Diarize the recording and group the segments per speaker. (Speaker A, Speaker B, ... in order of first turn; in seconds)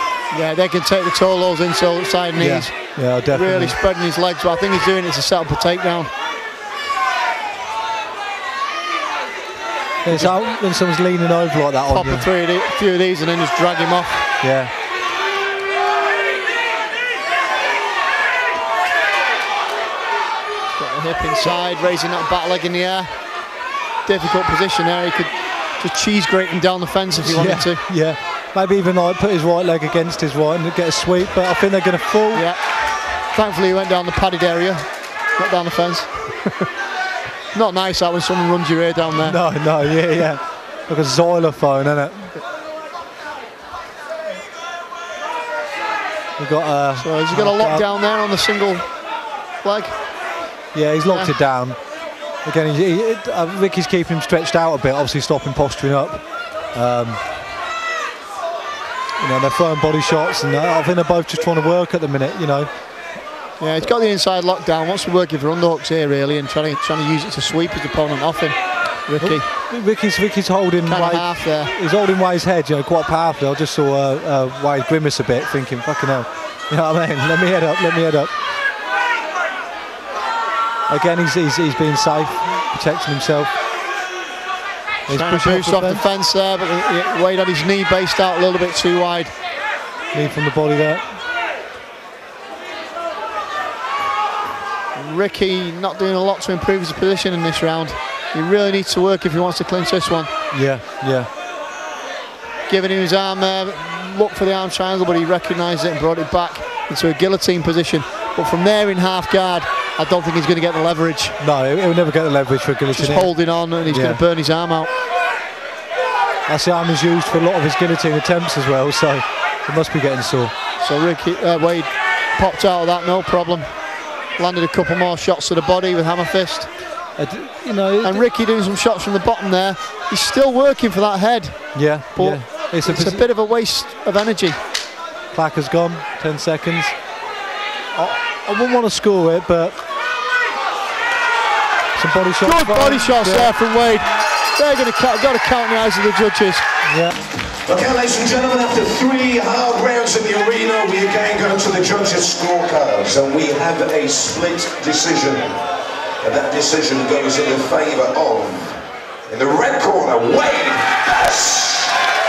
Speaker A: 0.3-6.1, 10.1-10.3, 11.9-14.3, 20.8-23.2, 24.1-27.8, 32.3-36.3, 37.5-39.4, 47.0-49.0, 49.6-50.0, 63.6-69.5, 70.8-71.7, 85.1-89.3, 95.0-100.3, 102.7-111.4, 113.0-114.9, 120.8-123.8, 124.3-126.7, 128.0-134.6, 142.4-146.7
Speaker B: 2.4-3.8, 10.0-12.3, 14.4-14.7, 27.2-32.5, 39.2-42.4, 46.4-47.9, 50.7-51.8, 52.4-57.2, 59.2-62.7, 69.2-78.4, 80.9-83.5, 85.1-86.0, 90.1-91.1, 100.5-101.3, 111.4-114.2, 116.5-120.5, 127.2-128.3, 131.7-133.2, 135.3-137.0, 137.9-139.8, 141.9-143.5, 146.9-147.2
Speaker C: 147.6-155.6, 156.2-161.9